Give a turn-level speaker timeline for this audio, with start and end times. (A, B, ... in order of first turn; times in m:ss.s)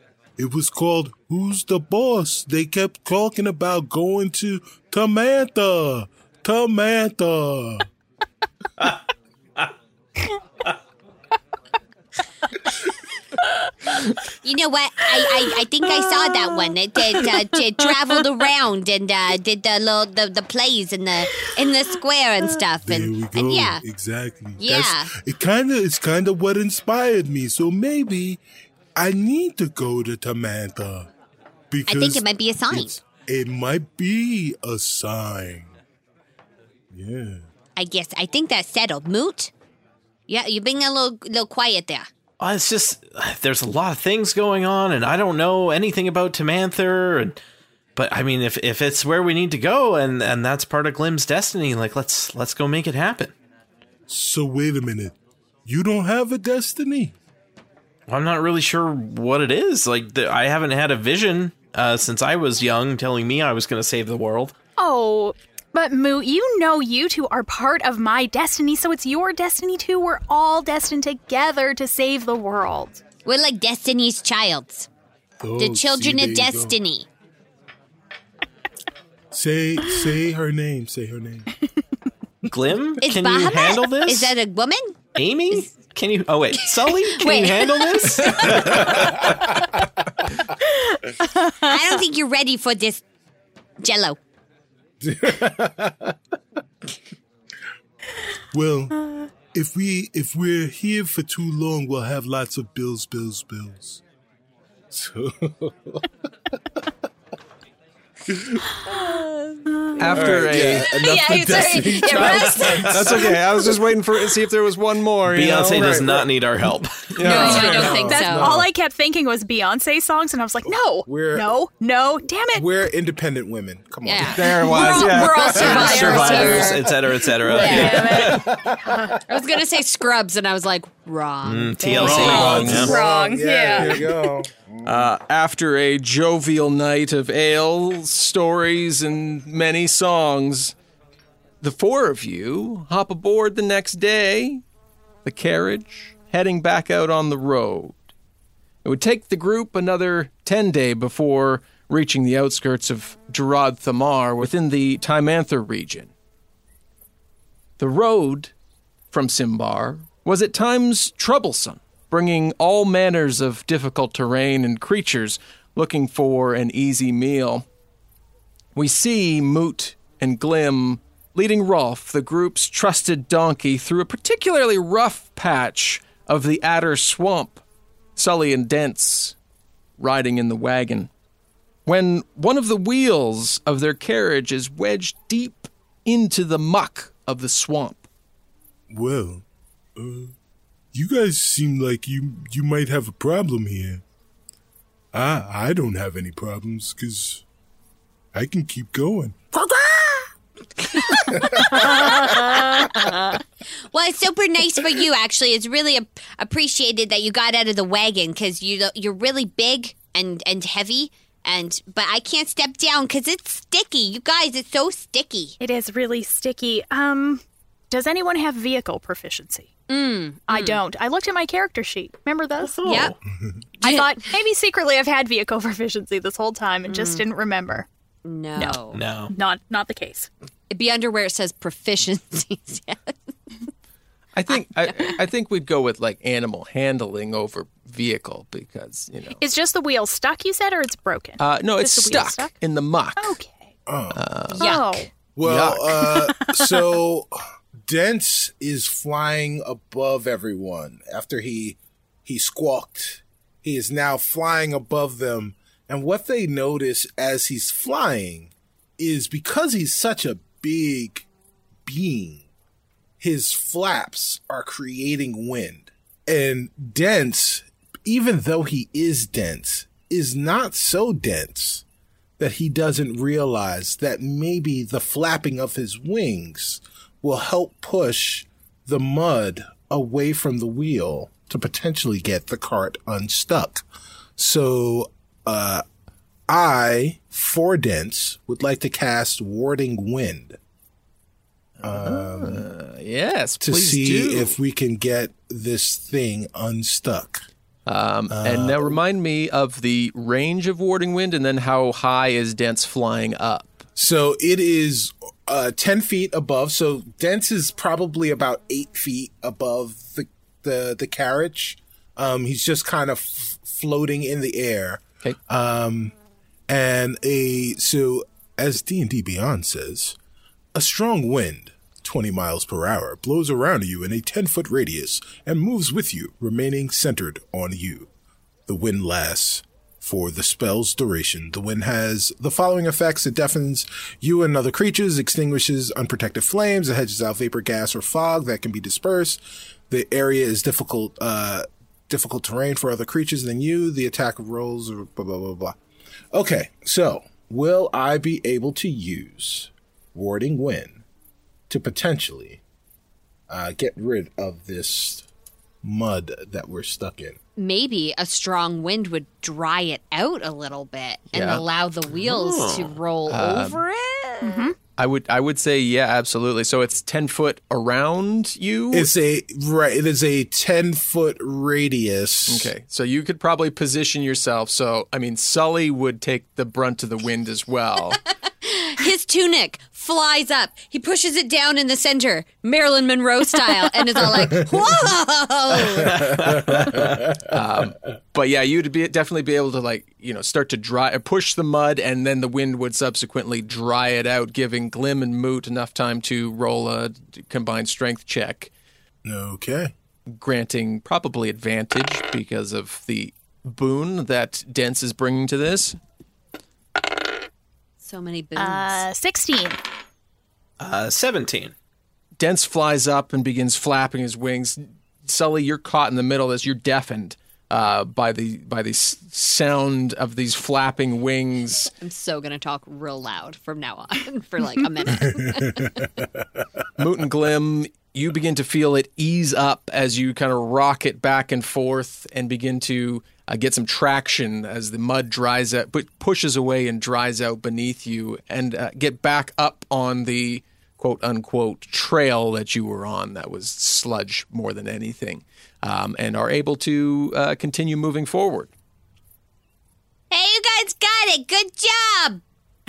0:00.4-0:07.9 A
0:14.4-0:23.8 B
0:16.0-0:16.6 C
0:22.8-0:28.4 A
0:24.6-0:25.1 B
0:29.0-0:31.1 A
0:31.7-0:35.7 A
0:31.9-0:33.0 B
0:36.9-0:37.4 A
0:37.8-0:39.5 B
0:40.3-0:42.1 B
0:42.4-0:47.4 D
0:48.0-0:53.3 D
0:54.1-0:57.1 A
0:58.1-1:04.5 D
1:04.8-1:13.0 C
1:13.2-1:14.9 B
1:15.4-1:16.8 A
1:15.6-1:17.1 B
1:19.3-1:21.5 A
1:22.5-1:24.3 D
1:23.0-1:25.0 B
1:25.2-1:29.3 D
1:26.7-1:29.2 B
1:31.6-1:33.0 B
1:33.8-1:34.2 B
1:35.1-1:36.0 E
1:38.5-1:38.9 A
1:39.5-1:44.0 A
1:44.9-1:45.5 A
1:48.3-1:48.6 A
1:48.9-1:53.4 B
1:49.7-1:50.1 C
1:50.0-1:50.9 F
1:50.1-1:53.3 E
1:51.3-1:52.1 A
1:52.3-1:53.2 D
1:52.7-1:55.9 F
1:55.3-1:57.3 D
1:55.5-1:56.2 E
1:57.2-1:57.8 F
1:57.2-1:58.6 E
1:57.2-1:58.5 B
1:57.3-2:02.7 C
1:57.4-1:57.9 A
2:00.7-2:01.5 E
2:02.6-2:06.0 E
2:04.0-2:08.4 B
2:04.3-2:05.7 F
2:04.7-2:08.5 D
2:04.7-2:06.8 C
2:07.5-2:09.2 C
2:07.5-2:09.2 E
2:09.3-2:12.9 B
2:11.4-2:13.0 D
2:11.8-2:14.2 C
2:12.0-2:13.0 F
2:12.3-2:15.1 E
2:14.8-2:20.7 F
2:21.6-2:24.6 F
2:25.2-2:28.0 F
2:28.8-2:36.1 F
2:37.8-2:38.5 F
2:39.1-2:47.6 F
2:48.7-2:57.6 F
2:58.2-2:59.3 F
3:00.0-3:01.1 F
3:01.8-3:08.0 F
3:08.9-3:09.4 A
3:10.0-3:10.3 A
3:10.9-3:14.0 A
3:15.1-3:17.4 A
3:18.3-3:19.5 A
3:19.5-3:20.3 E
3:20.9-3:23.4 B
3:21.5-3:21.9 E
3:22.2-3:22.6 C
3:23.9-3:35.6 B
3:35.6-3:39.7 C
3:39.9-3:40.8 B
3:40.5-3:42.9 C
3:42.6-3:43.1 D
3:42.8-3:43.1 B
3:43.8-3:44.3 B
3:43.8-3:47.9 C
3:46.9-3:47.2 B
3:48.2-3:49.0 B
3:48.6-3:50.3 C
3:48.9-3:49.3 D
3:50.7-3:53.2 B
3:54.3-3:59.4 F
3:54.5-3:55.2 B
3:59.4-4:02.5 C
4:01.4-4:03.4 F
4:03.2-4:03.7 C
4:03.8-4:04.2 E
4:04.1-4:04.8 F
4:04.5-4:05.0 B
4:04.5-4:05.1 C
4:05.3-4:07.3 E
4:05.4-4:06.1 F
4:06.1-4:07.0 C
4:07.8-4:21.2 E
4:21.8-4:22.4 E
4:23.2-4:31.8 E
4:32.4-4:43.8 E
4:44.4-4:45.8 E
4:46.5-4:50.6 E
4:51.8-4:54.6 F
4:51.8-4:52.6 E
4:53.6-4:57.4 E
4:57.8-5:03.8 F
4:58.3-4:59.0 E
5:04.0-5:16.1 E
5:16.7-5:20.2 E
5:20.7-5:28.1 E
5:28.7-5:45.8 E
5:46.3-5:51.0 E
5:51.7-5:52.6 E
5:53.5-5:55.2 E
5:55.8-5:57.4 E
5:57.6-6:04.7 B
6:01.3-6:01.6 F
6:02.1-6:03.0 D
6:03.3-6:03.8 F
6:04.4-6:04.8 C
6:05.0-6:09.1 F
6:08.9-6:12.7 E
6:12.5-6:18.2 F
6:18.6-6:26.5 B
6:25.9-6:27.3 D
6:27.5-6:38.7 F
6:39.3-6:39.9 E
6:39.4-6:39.7 A
6:40.3-6:46.0 F
6:48.0-6:49.0 B
6:48.6-6:49.8 C
6:50.8-6:51.7 D
6:52.4-7:01.9 F
7:02.0-7:06.1 B
7:07.0-7:28.7 F
7:30.3-7:32.4 B